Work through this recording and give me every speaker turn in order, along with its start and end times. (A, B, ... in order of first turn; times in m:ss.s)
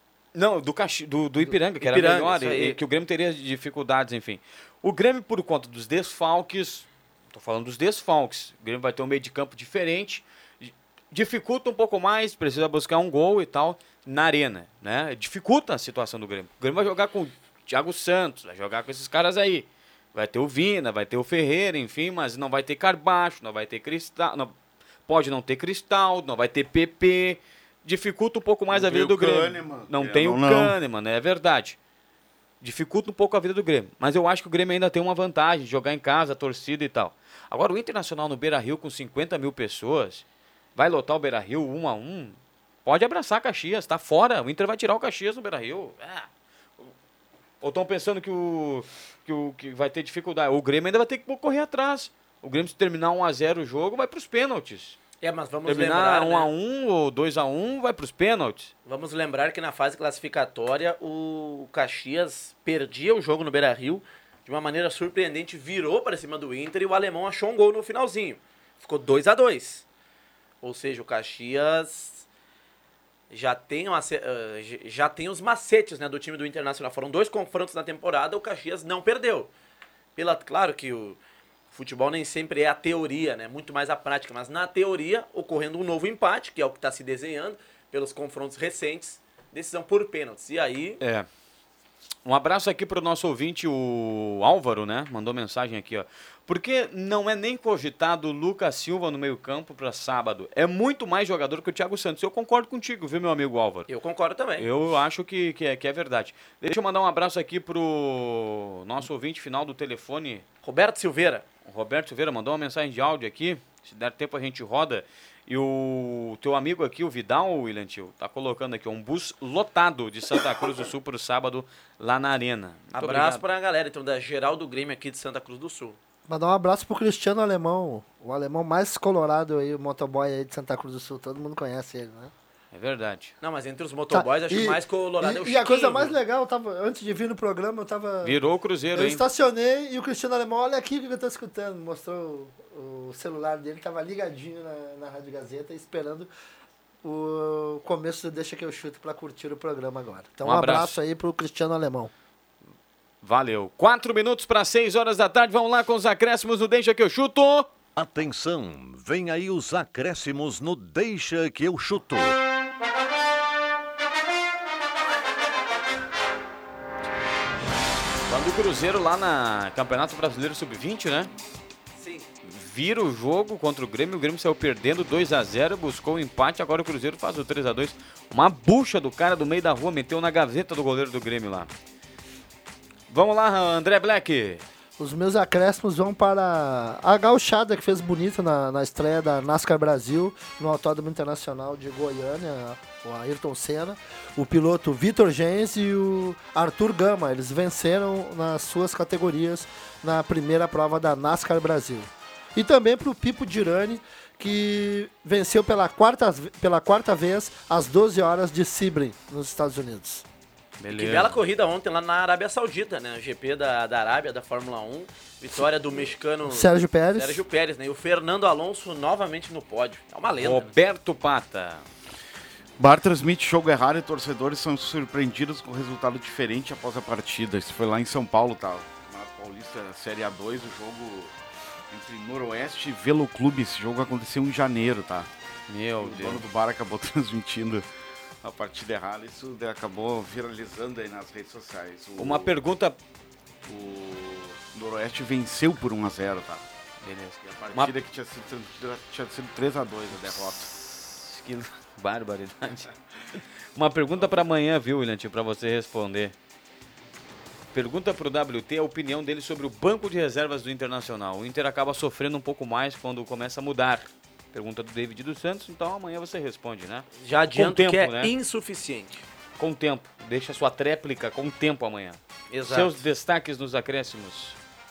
0:00.3-0:24.5 A
0:01.8-0:02.8 B
0:25.1-0:31.8 A
0:28.7-0:30.8 C
0:32.6-0:40.2 A
0:40.8-0:46.3 A
0:47.6-0:55.0 A
0:55.2-0:56.5 B
0:55.6-0:58.7 A
0:58.8-1:09.8 B
1:10.6-1:12.2 B
1:13.3-1:19.5 B
1:20.2-1:21.2 B
1:21.7-1:31.0 B
1:31.0-1:31.3 A
1:32.2-1:43.9 A
1:43.9-1:44.7 B
1:44.6-1:50.4 A
1:50.6-1:51.4 B
1:51.6-2:03.4 A
2:02.9-2:06.0 B
2:06.3-2:12.3 D
2:12.7-2:13.3 A
2:13.4-2:16.1 B
2:14.1-2:18.4 D
2:18.2-2:19.2 A
2:18.9-2:26.3 D
2:27.0-2:32.1 D
2:30.4-2:31.0 A
2:33.2-2:37.7 A
2:38.0-2:42.3 E
2:48.3-2:51.3 A
2:52.0-2:52.3 B
2:52.4-3:01.7 A
3:03.1-3:04.6 A
3:05.0-3:30.2 D
3:30.8-3:31.4 A
3:30.9-3:40.7 B
3:36.4-3:37.4 D
3:40.4-3:41.8 A
3:42.8-3:51.3 C
3:51.9-3:55.3 C
3:55.7-3:56.4 A
3:56.0-3:57.8 C
3:58.4-4:02.5 C
4:02.2-4:03.0 A
4:03.6-4:06.6 C
4:07.0-4:07.9 A
4:07.4-4:10.7 C
4:10.2-4:16.3 A
4:17.7-4:28.3 A
4:27.2-4:29.2 B
4:29.6-4:34.6 A
4:32.5-4:32.9 B